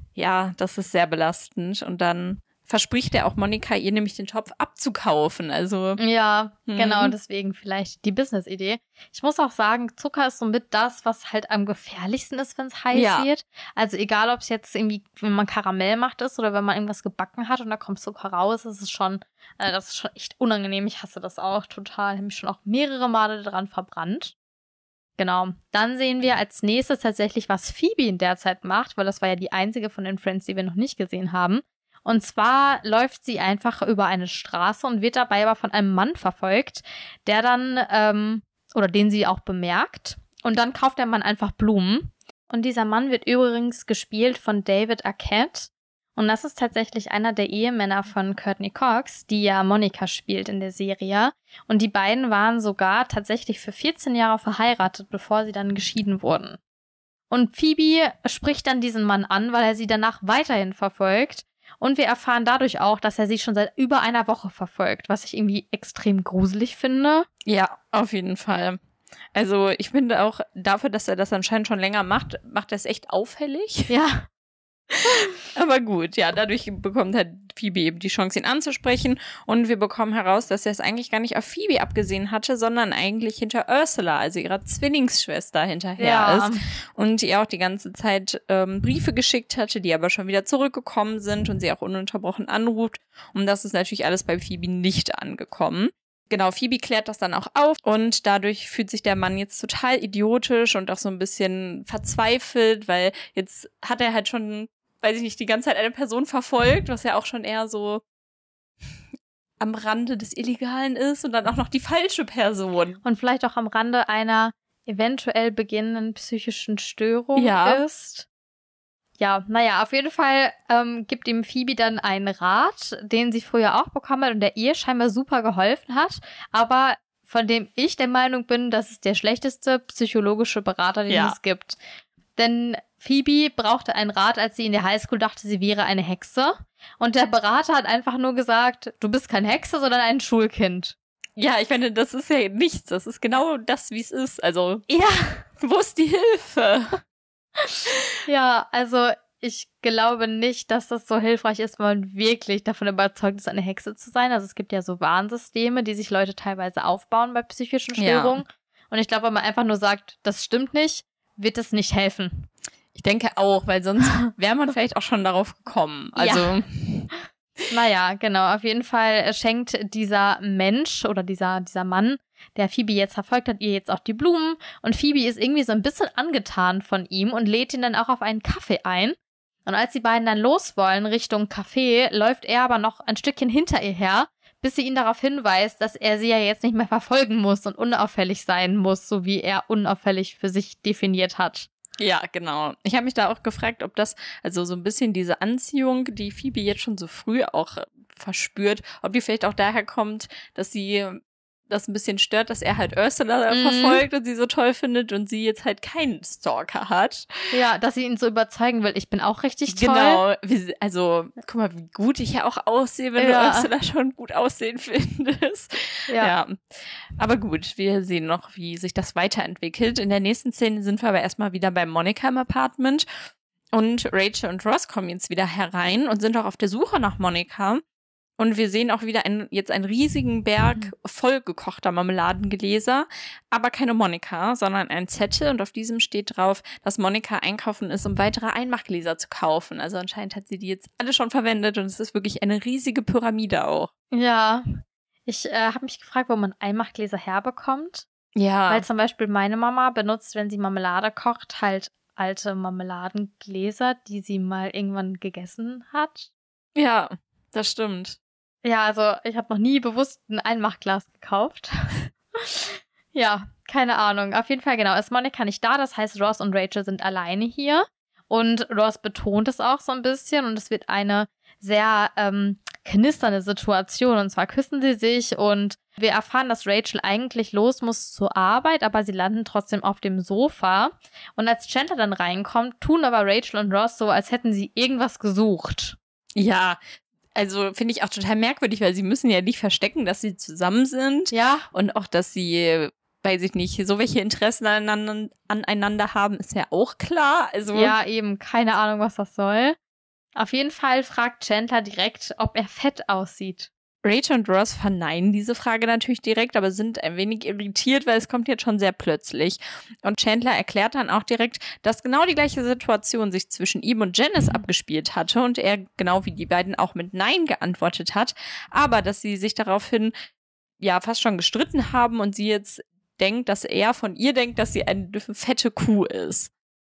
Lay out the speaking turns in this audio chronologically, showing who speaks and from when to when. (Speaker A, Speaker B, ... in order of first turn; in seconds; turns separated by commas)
Speaker A: 0.2-6.0, Speaker B: 6.0-24.3, Speaker A: 6.7-7.1, Speaker A: 12.9-13.3, Speaker B: 25.2-56.6, Speaker B: 57.3-67.3, Speaker A: 67.5-68.8, Speaker A: 69.3-73.9, Speaker B: 73.9-74.3, Speaker A: 74.9-108.0, Speaker B: 86.0-86.6, Speaker A: 109.6-113.0, Speaker B: 113.0-118.3, Speaker A: 117.4-117.8, Speaker B: 119.2-131.8, Speaker A: 131.1-131.4, Speaker B: 132.4-140.9, Speaker A: 141.4-144.9, Speaker B: 144.9-145.4, Speaker A: 145.6-147.0, Speaker B: 147.7-162.5, Speaker A: 158.0-158.4, Speaker A: 162.9-167.1, Speaker B: 166.2-166.6, Speaker B: 167.7-191.7, Speaker A: 192.0-207.3, Speaker B: 203.5-204.0, Speaker B: 207.5-210.2, Speaker A: 209.7-223.1, Speaker B: 213.2-213.7, Speaker A: 223.7-227.8, Speaker A: 228.4-243.9, Speaker B: 244.1-248.1, Speaker A: 248.4-248.9, Speaker B: 248.7-256.3, Speaker A: 256.8-258.2, Speaker B: 258.6-286.0, Speaker A: 286.4-286.8, Speaker A: 287.4-298.0, Speaker B: 291.3-291.7, Speaker B: 297.7-299.8, Speaker B: 300.4-303.7, Speaker A: 304.1-320.1, Speaker A: 320.8-326.5